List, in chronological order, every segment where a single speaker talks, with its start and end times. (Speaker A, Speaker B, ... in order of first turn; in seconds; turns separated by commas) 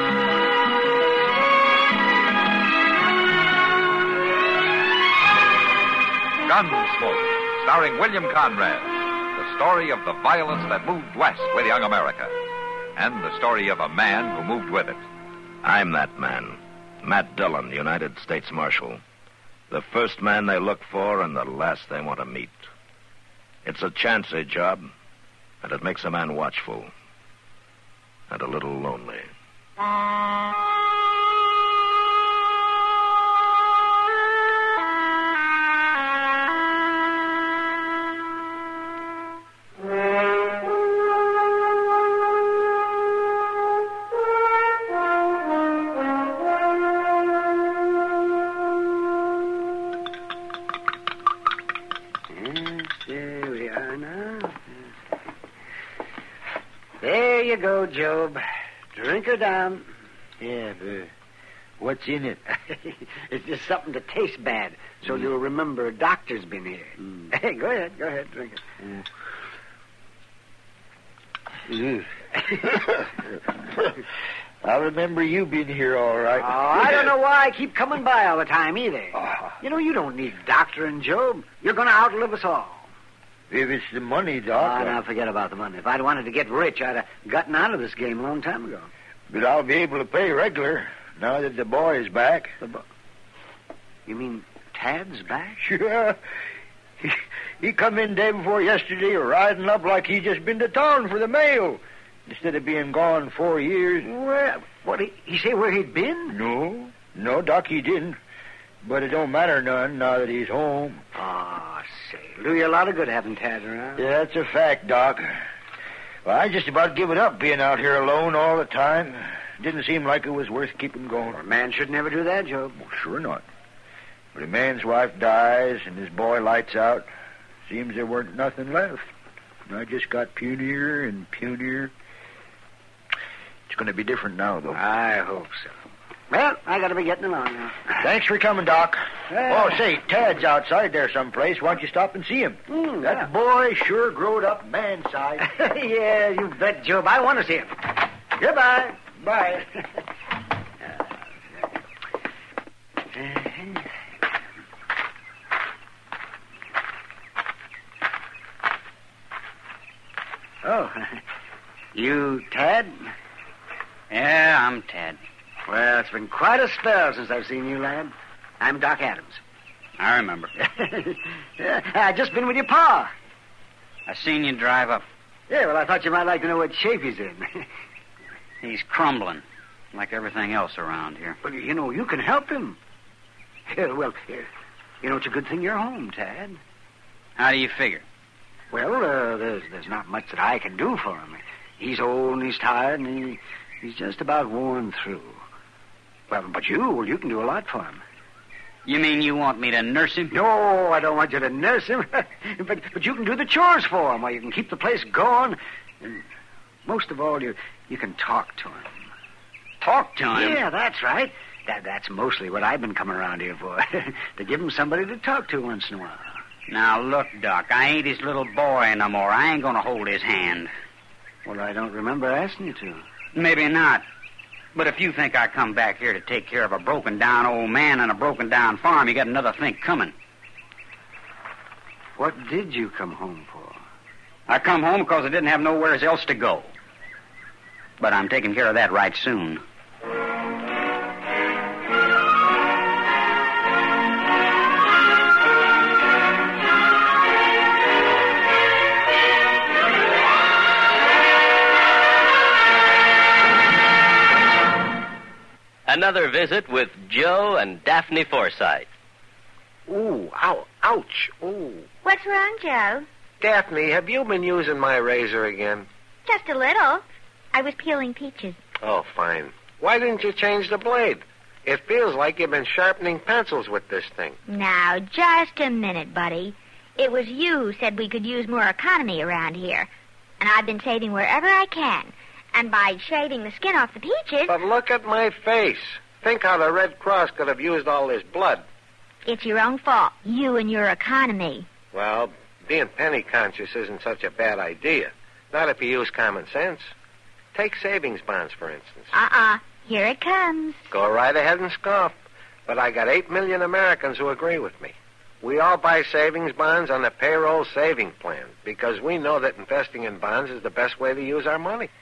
Speaker A: 6.5-12.3, Speaker A: 13.0-15.0, Speaker B: 15.6-19.0, Speaker B: 19.7-22.7, Speaker B: 23.6-24.9, Speaker B: 25.6-26.9, Speaker B: 28.3-29.2, Speaker C: 52.3-54.7, Speaker C: 57.0-58.4, Speaker C: 58.9-59.9, Speaker D: 60.4-61.1, Speaker D: 61.8-62.4, Speaker C: 62.7-68.8, Speaker D: 71.7-72.1, Speaker D: 74.6-77.0, Speaker C: 76.4-82.8, Speaker D: 83.5-85.0, Speaker C: 84.6-88.9, Speaker D: 89.3-92.6, Speaker C: 94.1-95.6, Speaker D: 95.6-96.2, Speaker D: 97.0-104.1, Speaker C: 104.0-106.3, Speaker D: 106.3-108.2, Speaker D: 108.8-111.0, Speaker C: 111.2-114.0, Speaker D: 114.0-115.4, Speaker D: 116.2-121.4, Speaker C: 121.3-122.8, Speaker D: 122.8-123.4, Speaker D: 124.3-127.1, Speaker D: 127.7-129.1, Speaker D: 129.7-131.9, Speaker D: 133.7-134.8, Speaker C: 134.7-135.7, Speaker C: 136.3-138.0, Speaker D: 138.0-145.5, Speaker C: 139.3-139.7, Speaker C: 142.7-143.3, Speaker C: 145.4-147.8, Speaker C: 148.3-149.6, Speaker C: 153.1-153.8, Speaker C: 160.6-161.2, Speaker C: 161.9-163.1, Speaker E: 164.1-165.2, Speaker C: 165.7-169.4, Speaker E: 170.0-170.5, Speaker C: 170.6-173.1, Speaker E: 174.1-175.1, Speaker C: 175.5-177.6, Speaker E: 178.6-181.4, Speaker C: 181.4-182.8, Speaker C: 183.7-184.5, Speaker C: 185.0-186.6, Speaker E: 187.4-188.1, Speaker C: 188.7-195.4, Speaker C: 196.3-198.0, Speaker E: 198.8-200.4, Speaker C: 200.3-206.2, Speaker C: 206.8-208.9, Speaker E: 209.8-210.6, Speaker C: 210.3-216.3, Speaker E: 216.7-220.7, Speaker C: 221.4-223.0, Speaker E: 223.3-224.1, Speaker E: 224.7-230.1, Speaker C: 232.2-233.8, Speaker E: 234.5-236.7, Speaker E: 238.0-239.6, Speaker F: 255.9-258.9, Speaker G: 259.9-261.9, Speaker H: 262.0-263.1, Speaker G: 263.4-265.9, Speaker H: 266.2-268.6, Speaker G: 268.8-274.4, Speaker H: 274.5-279.9, Speaker H: 280.4-284.6, Speaker G: 284.5-288.6, Speaker H: 289.2-291.7, Speaker G: 291.9-296.9, Speaker G: 297.5-299.1, Speaker H: 299.1-300.8, Speaker G: 300.9-311.9